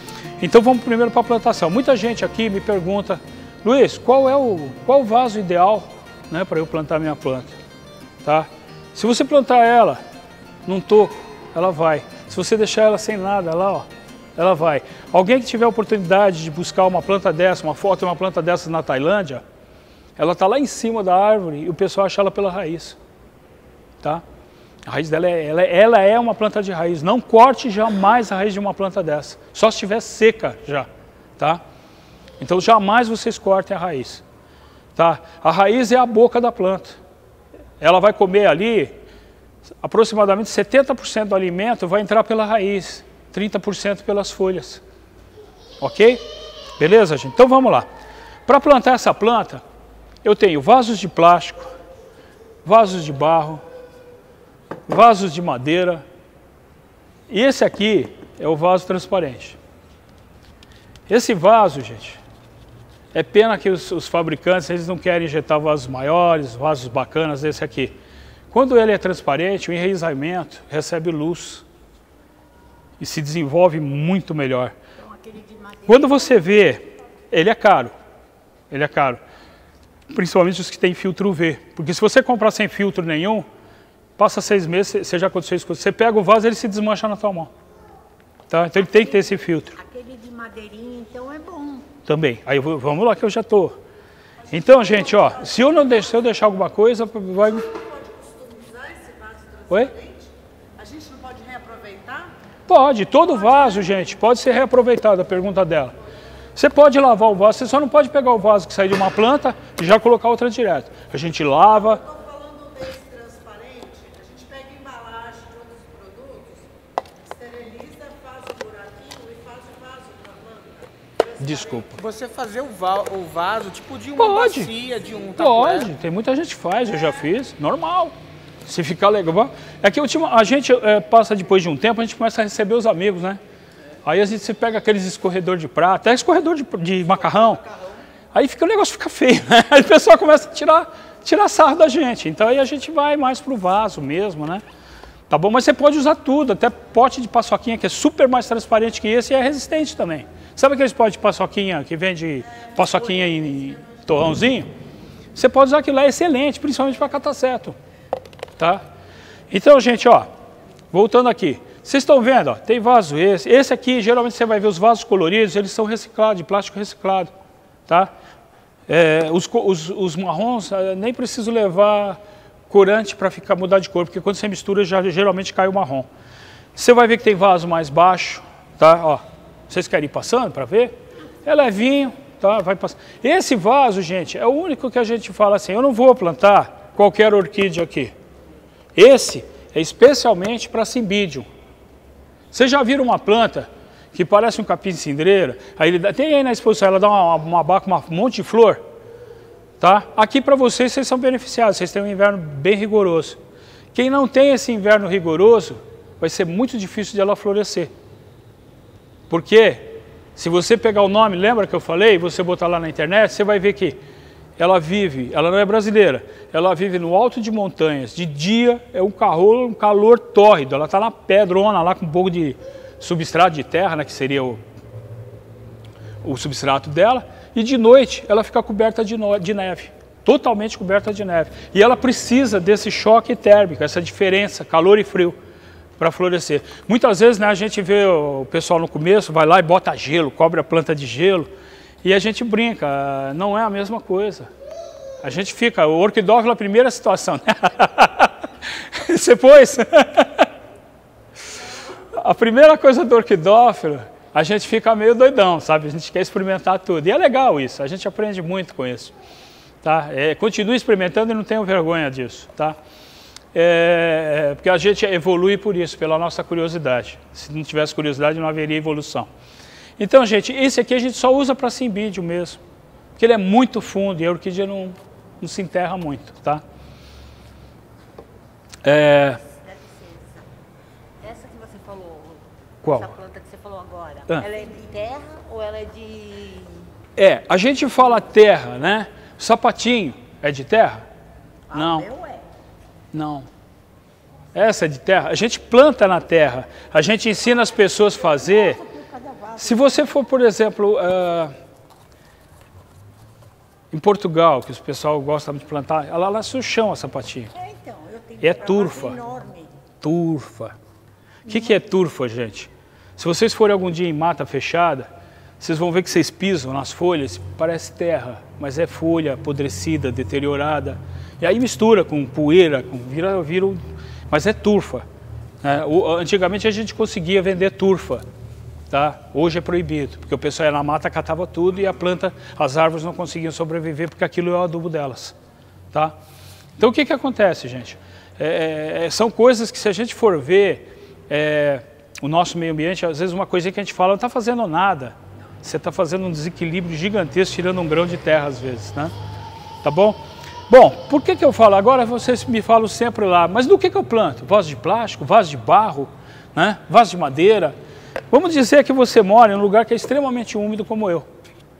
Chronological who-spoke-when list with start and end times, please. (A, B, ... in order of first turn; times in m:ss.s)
0:00.4-0:07.5 A
0:08.2-0:10.0 A
0:10.6-0:19.4 A
0:20.2-0:23.0 A
0:24.8-0:30.9 A
0:32.4-0:34.2 A
0:34.9-0:37.0 A
0:37.8-0:38.9 A
0:39.8-0:44.8 A
0:45.8-0:46.2 A
0:46.8-0:47.9 A
0:48.4-0:49.6 A
0:50.2-0:51.7 A
0:52.6-0:53.6 A
0:54.9-0:56.0 A
0:57.3-0:59.6 A
1:01.1-1:02.2 A
1:03.1-1:07.9 A
1:08.5-1:11.6 A
1:13.0-1:14.7 A
1:15.2-1:15.8 B
1:15.8-1:17.9 A
1:18.7-1:19.2 A
1:20.1-1:23.4 A
1:24.2-1:27.5 A
1:28.5-1:29.8 A
1:29.7-1:31.9 B
1:32.0-1:33.7 A
1:34.5-1:37.8 A
1:37.9-1:42.3 B
1:39.7-1:40.0 A
1:42.7-1:45.9 A
1:46.5-1:52.2 A
1:52.1-1:56.7 B
1:57.2-2:00.9 B
2:01.4-2:02.0 A
2:01.9-2:05.9 C
2:04.2-2:04.8 A
2:05.3-2:13.4 A
2:14.0-2:17.7 A
2:18.3-2:24.6 A
2:25.3-2:34.7 A
2:35.3-2:37.8 A
2:38.6-2:38.8 A
2:39.5-2:40.3 A
2:40.9-2:47.3 A
2:48.9-2:56.1 A
2:56.7-3:00.9 A
3:01.4-3:08.1 A
3:08.9-3:11.5 A
3:12.5-3:18.8 A
3:19.8-3:23.4 A
3:23.9-3:27.9 A
3:29.3-3:34.0 A
3:34.6-3:44.6 A
3:46.2-3:55.4 A
3:56.0-4:01.5 A
4:02.0-4:04.5 A
4:05.2-4:10.5 A
4:12.1-4:19.1 A
4:19.8-4:22.8 A
4:23.5-4:29.3 A
4:30.0-4:32.6 A
4:33.2-4:36.6 A
4:38.8-4:39.4 A
4:39.4-4:40.4 B
4:41.2-4:46.9 B
4:42.8-4:43.1 A
4:47.2-4:51.0 A
4:51.7-4:52.1 A
4:51.7-4:52.4 B
4:53.1-4:53.5 A
4:54.5-4:58.8 A
4:58.6-5:00.0 B
4:59.6-5:01.5 A
5:03.9-5:07.5 A
5:07.5-5:09.8 B
5:08.4-5:09.2 A
5:10.0-5:10.8 A
5:11.5-5:15.1 A
5:15.6-5:25.0 A
5:25.6-5:28.2 A
5:28.9-5:35.3 A
5:36.8-5:49.1 A
5:49.8-5:50.2 A
5:50.7-5:57.7 A
5:58.3-6:01.3 A